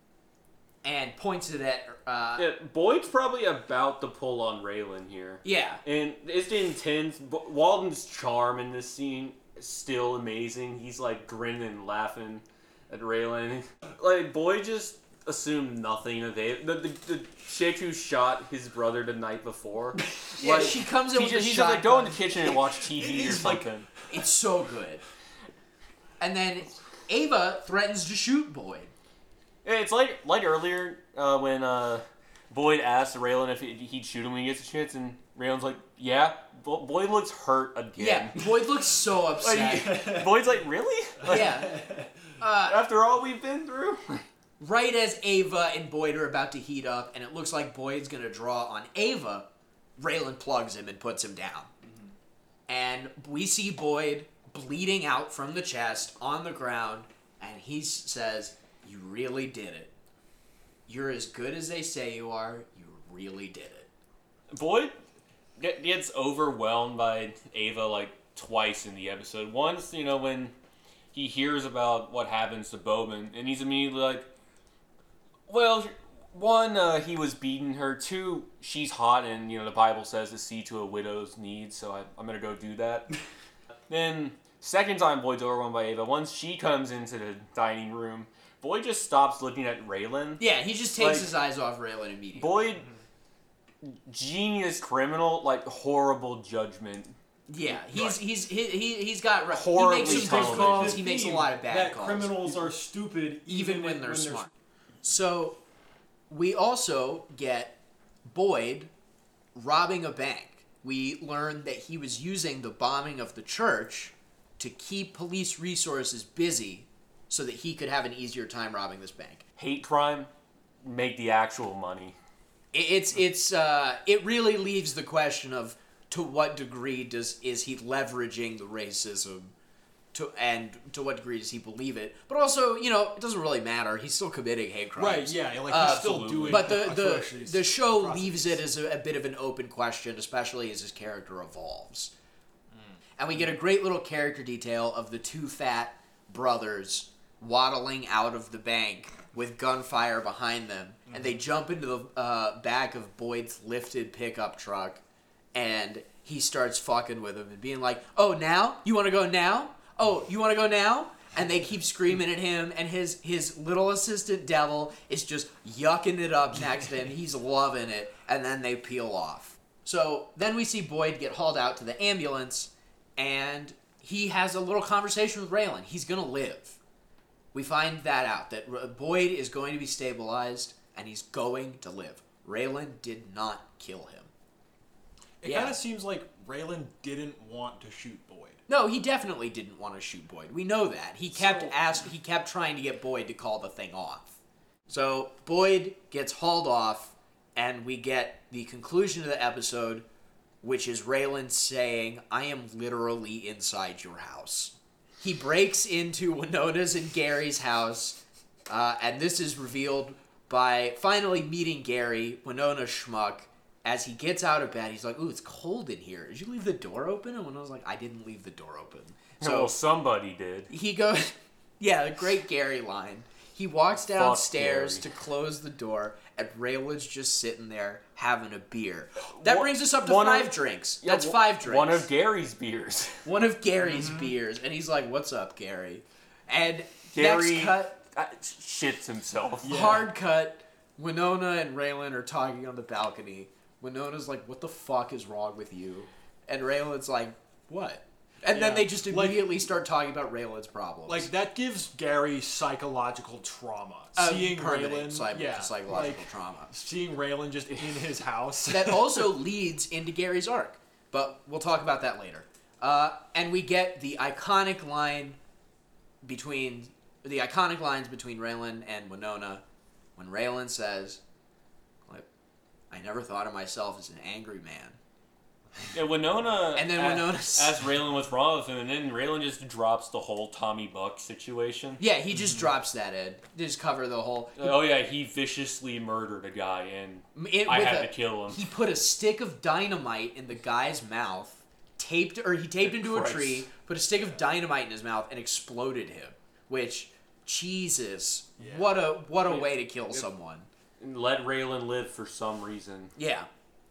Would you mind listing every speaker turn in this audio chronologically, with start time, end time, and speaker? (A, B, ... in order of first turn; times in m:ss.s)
0:00.8-0:02.5 A
0:02.4-0:23.9 B
0:05.4-0:05.8 A
0:20.4-0:22.2 A
0:23.0-0:23.7 C
0:24.1-0:25.0 A
0:26.2-0:28.9 A
0:29.6-0:38.5 B
0:38.0-0:40.0 A
0:39.4-0:41.7 B
0:39.8-0:40.6 C
0:41.2-0:42.1 C
0:41.3-0:41.8 A
0:42.4-0:42.8 A
0:42.6-0:44.2 B
0:44.6-0:49.5 A
0:50.0-0:51.7 A
0:51.8-0:52.1 C
0:52.7-0:59.9 A
1:00.9-1:03.9 A
1:04.5-1:05.0 B
1:05.6-1:10.5 B
1:11.1-1:14.3 B
1:15.5-1:23.1 B
1:23.9-1:31.3 B
1:30.4-1:32.7 A
1:32.3-1:32.8 B
1:33.8-1:38.2 B
1:37.5-1:42.6 A
1:39.5-1:41.0 B
1:39.9-1:44.5 C
1:43.5-1:44.5 A
1:45.0-1:45.6 A
1:46.3-1:47.8 A
1:48.3-1:48.9 A
1:49.5-1:59.4 A
1:59.6-2:00.3 B
2:00.8-2:02.2 B
2:02.7-2:09.5 A
2:10.1-2:22.1 A
2:15.0-2:18.6 C
2:15.7-2:17.0 B
2:22.7-2:23.5 C
2:23.2-2:35.0 A
2:31.1-2:31.4 C
2:35.5-2:56.8 A
2:57.5-3:04.3 A
3:05.4-3:08.6 C
3:05.4-3:05.8 A
3:08.7-3:14.4 A
3:11.3-3:11.7 C
3:14.9-3:20.0 A
3:20.6-3:39.7 A
3:39.4-3:40.7 B
3:40.7-3:52.1 A
3:44.1-3:45.0 B
3:49.3-3:53.2 B
3:53.2-3:58.0 A
3:53.8-3:54.3 C
3:57.1-3:59.9 B
3:59.6-4:00.1 C
3:59.6-4:11.3 A
4:08.5-4:09.7 C
4:11.1-4:19.3 C
4:14.1-4:16.7 A
4:18.7-4:25.4 A
4:26.2-4:29.6 A
4:30.2-4:31.2 A
4:32.9-4:35.0 A
4:35.9-4:42.0 B
4:36.7-4:37.8 A
4:42.0-4:44.8 A
4:42.3-4:42.7 C
4:44.6-4:48.6 B
4:47.3-5:00.7 A
4:52.8-4:53.7 B
4:54.1-4:54.4 C
4:58.6-4:59.0 C
4:59.5-5:00.2 B
5:01.0-5:03.1 B
5:03.2-5:03.5 A